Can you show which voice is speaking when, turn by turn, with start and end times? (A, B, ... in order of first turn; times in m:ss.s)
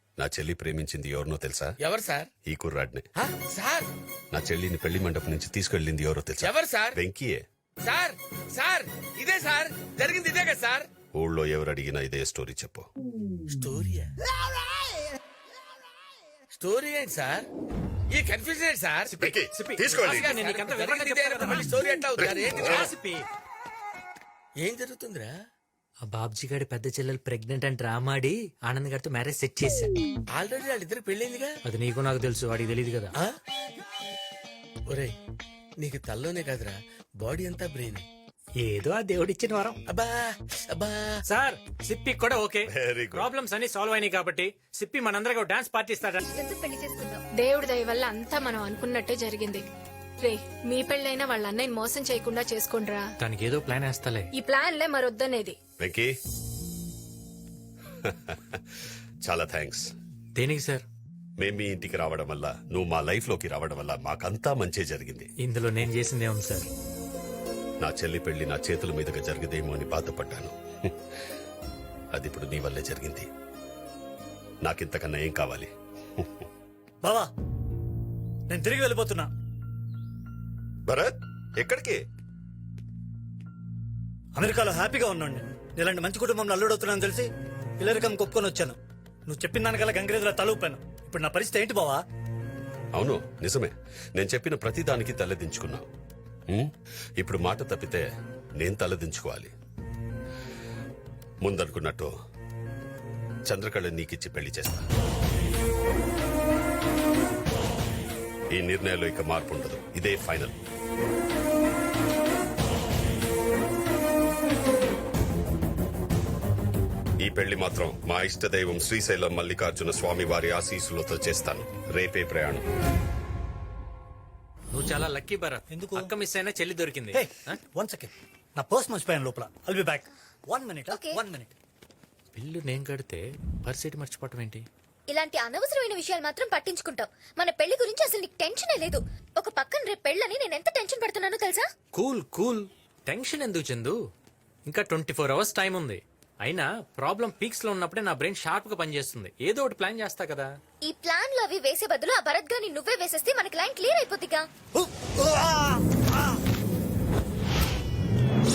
0:00.2-0:01.8 A
0:01.8-0:02.3 B
0:02.5-0:03.1 A
0:03.2-0:03.9 B
0:04.3-0:07.4 A
0:06.4-0:07.0 B
0:07.8-0:10.9 B
0:11.1-0:12.9 A
0:13.5-0:14.1 B
0:16.5-0:17.5 B
0:18.1-0:19.2 B
0:19.1-0:23.3 C
0:19.2-0:20.3 A
0:20.0-0:22.9 B
0:22.4-0:22.9 A
0:24.6-0:25.4 B
0:26.1-0:30.0 C
0:30.3-0:31.5 B
0:31.6-0:33.1 C
0:34.9-0:35.2 B
0:35.8-0:38.1 B
0:38.6-0:39.8 C
0:39.9-0:41.2 B
0:41.3-0:46.2 C
0:42.7-0:43.3 A
0:46.2-0:47.2 D
0:47.4-0:49.6 E
0:50.2-0:53.0 E
0:53.2-0:54.3 C
0:54.3-0:55.6 E
0:55.8-0:56.1 A
0:58.0-0:58.6 A
0:59.2-0:59.9 A
1:00.4-1:00.8 C
1:01.4-1:05.3 A
1:05.4-1:06.7 C
1:07.8-1:10.9 A
1:12.1-1:13.3 A
1:14.6-1:16.3 A
1:17.0-1:17.3 F
1:18.5-1:19.3 F
1:20.9-1:22.0 A
1:24.4-1:32.0 F
1:33.0-1:35.9 A
1:36.5-1:38.1 A
1:38.6-1:39.5 A
1:41.4-1:42.1 A
1:43.5-1:44.9 A
1:48.5-1:50.6 A
1:57.2-2:02.6 A
2:04.7-2:07.6 C
2:05.7-2:06.1 F
2:07.1-2:11.5 F
2:10.9-2:11.2 D
2:12.4-2:14.7 C
2:15.1-2:21.7 D
2:22.0-2:24.0 C
2:24.7-2:30.5 C
2:30.9-2:34.4 D
2:34.8-2:35.8 F